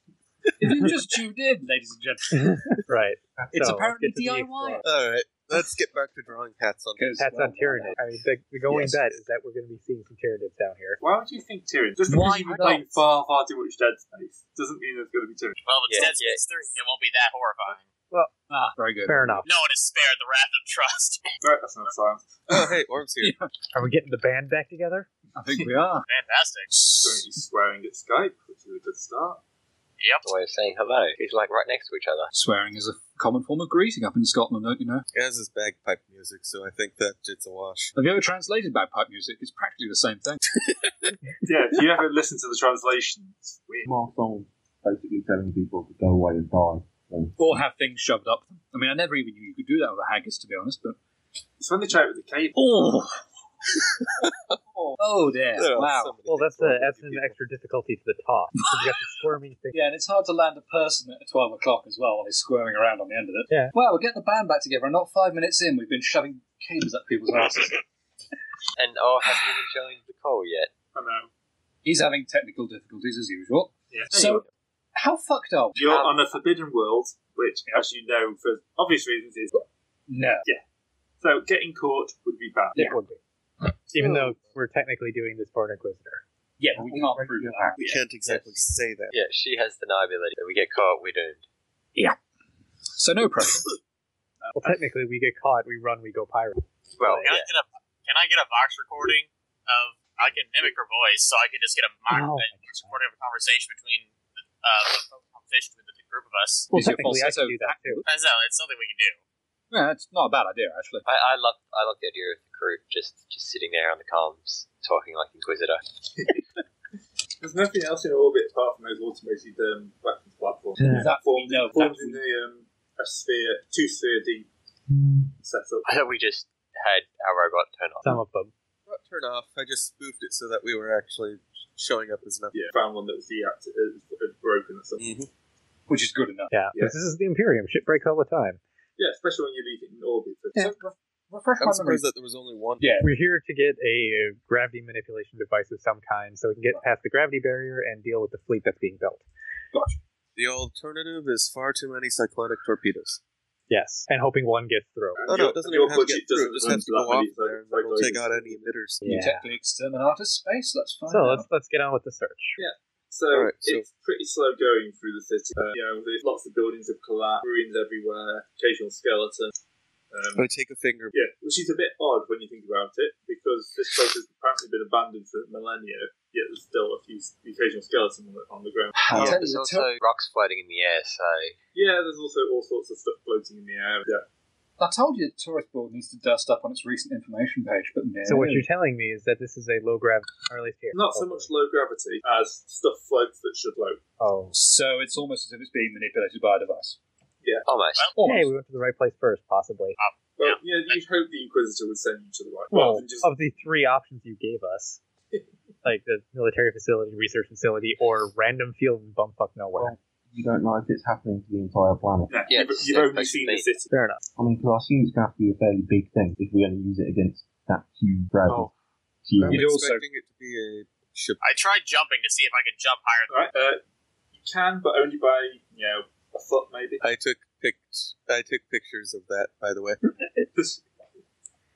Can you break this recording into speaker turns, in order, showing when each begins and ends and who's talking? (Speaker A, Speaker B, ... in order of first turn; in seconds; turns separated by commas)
Speaker A: 0.6-2.6, Speaker B: 2.3-4.8, Speaker A: 3.5-4.8, Speaker C: 4.8-7.1, Speaker A: 7.0-8.0, Speaker B: 7.2-11.0, Speaker C: 8.7-9.2, Speaker D: 11.0-15.6, Speaker A: 12.1-12.9, Speaker E: 15.6-17.8, Speaker F: 15.9-16.4, Speaker A: 18.5-19.5, Speaker B: 19.0-19.4, Speaker E: 19.4-21.2, Speaker D: 21.4-22.4, Speaker C: 22.5-23.4, Speaker A: 23.2-23.5, Speaker B: 23.7-25.1, Speaker A: 25.4-26.1, Speaker E: 26.1-26.7, Speaker A: 26.7-27.2, Speaker D: 27.0-29.4, Speaker E: 30.0-30.2, Speaker F: 30.2-32.3, Speaker A: 32.3-35.0, Speaker C: 35.1-37.9, Speaker A: 37.9-40.4, Speaker D: 41.4-43.9, Speaker G: 43.8-47.4, Speaker A: 47.4-51.0, Speaker D: 51.6-52.6, Speaker A: 52.5-53.3, Speaker C: 54.1-54.6, Speaker A: 54.7-56.2, Speaker C: 55.5-57.4, Speaker B: 56.3-59.8, Speaker A: 59.7-67.8, Speaker B: 63.5-63.7, Speaker F: 68.8-70.7, Speaker D: 70.9-71.3, Speaker A: 71.8-74.4, Speaker D: 73.9-74.4, Speaker A: 74.9-75.8, Speaker D: 75.8-79.6, Speaker F: 75.8-76.2, Speaker A: 80.1-80.4, Speaker D: 81.2-82.9, Speaker B: 82.8-83.2, Speaker B: 83.9-86.2, Speaker C: 84.0-84.4, Speaker A: 86.6-88.0, Speaker G: 86.7-87.8, Speaker C: 87.8-89.1, Speaker F: 89.1-91.4, Speaker A: 92.9-93.7, Speaker D: 94.4-94.8, Speaker B: 94.5-97.3, Speaker F: 97.0-97.5, Speaker E: 97.2-106.7, Speaker B: 102.1-103.0, Speaker A: 106.7-108.0, Speaker B: 106.7-108.0, Speaker E: 108.0-109.2, Speaker A: 109.7-111.0, Speaker F: 111.0-115.8, Speaker D: 117.4-124.5, Speaker A: 120.9-122.2, Speaker G: 124.9-125.3, Speaker D: 125.4-125.8, Speaker F: 125.8-128.2, Speaker B: 128.0-128.5, Speaker C: 128.9-132.5, Speaker D: 132.5-135.1, Speaker C: 135.0-135.3, Speaker A: 135.9-136.6, Speaker B: 136.5-138.6, Speaker D: 139.0-140.8, Speaker A: 140.5-142.1, Speaker C: 141.6-142.9, Speaker A: 142.8-143.1, Speaker B: 143.0-149.2, Speaker A: 149.7-150.0, Speaker C: 150.3-153.2, Speaker B: 153.7-155.2, Speaker D: 155.2-158.6, Speaker C: 155.3-159.1, Speaker B: 159.0-159.5, Speaker A: 159.0-161.5, Speaker B: 161.1-162.6, Speaker D: 162.6-169.5, Speaker C: 163.3-163.8, Speaker D: 170.1-170.5, Speaker C: 170.4-171.1, Speaker D: 171.1-179.1, Speaker G: 179.1-179.3, Speaker A: 179.1-179.9, Speaker F: 179.1-181.6, Speaker D: 181.7-184.2, Speaker A: 184.8-188.7, Speaker B: 188.2-191.5, Speaker D: 190.9-194.0, Speaker B: 194.2-194.6, Speaker A: 194.5-197.0, Speaker D: 197.4-197.7, Speaker F: 197.7-198.1, Speaker A: 198.2-198.5, Speaker B: 198.2-200.0, Speaker E: 200.0-201.0, Speaker D: 200.4-203.3, Speaker B: 202.7-205.0, Speaker B: 205.8-209.9, Speaker G: 209.8-212.3, Speaker D: 212.3-213.9, Speaker F: 212.5-213.7, Speaker B: 213.9-214.2, Speaker G: 214.4-218.7, Speaker G: 219.2-219.6, Speaker C: 219.4-221.4, Speaker A: 219.5-220.1, Speaker E: 221.4-223.3, Speaker D: 223.3-223.8, Speaker D: 224.3-227.0, Speaker C: 227.0-230.0, Speaker D: 230.5-230.8